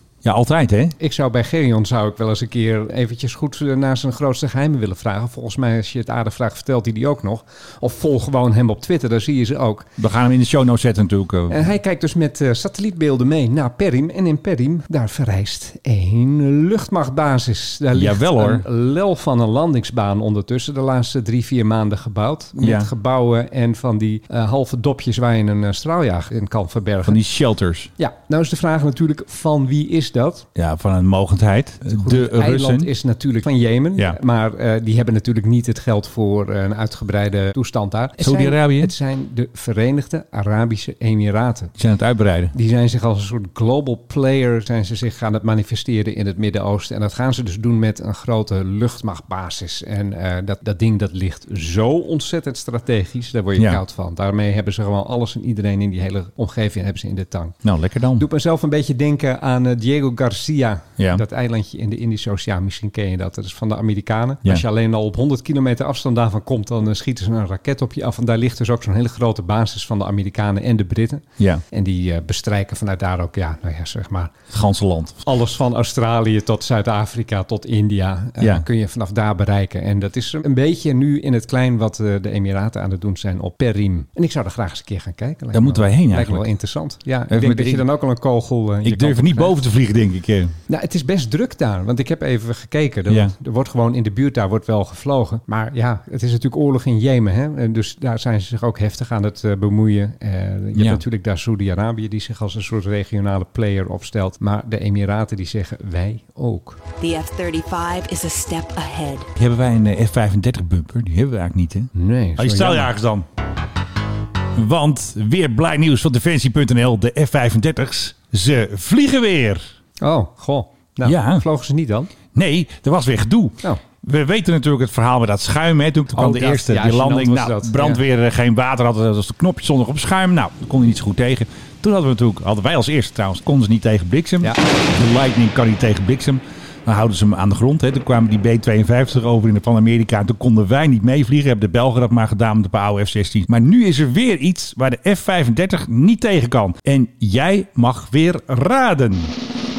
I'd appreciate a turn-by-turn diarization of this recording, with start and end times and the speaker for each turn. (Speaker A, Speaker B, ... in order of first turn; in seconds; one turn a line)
Speaker A: 0.2-1.0
Speaker B: 1.0-9.9
Speaker A: 10.0-11.7
Speaker B: 11.5-27.2
Speaker A: 17.9-18.6
Speaker A: 22.6-22.9
Speaker A: 27.1-27.9
Speaker B: 28.0-30.5
Speaker A: 30.6-32.9
Speaker B: 31.9-41.7
Speaker A: 38.2-38.9
Speaker A: 41.8-42.5
Speaker B: 42.5-57.6
Speaker A: 53.5-53.8
Speaker A: 57.6-58.2
Speaker B: 58.2-74.3
Speaker A: 61.0-61.2
Speaker A: 74.5-75.2
Speaker B: 75.2-89.6
Speaker A: 78.4-78.7
Speaker A: 85.5-86.5
Speaker A: 87.3-87.8
Speaker A: 88.8-90.5
Speaker B: 90.7-106.8
Speaker A: 93.1-93.3
Speaker A: 100.8-101.0
Speaker C: 107.0-109.3
Speaker A: 109.4-113.3
Speaker B: 111.9-112.9
Speaker A: 114.6-119.7
Speaker B: 120.0-122.1
Speaker A: 121.0-121.5
Speaker A: 122.3-149.3
Speaker B: 126.1-128.0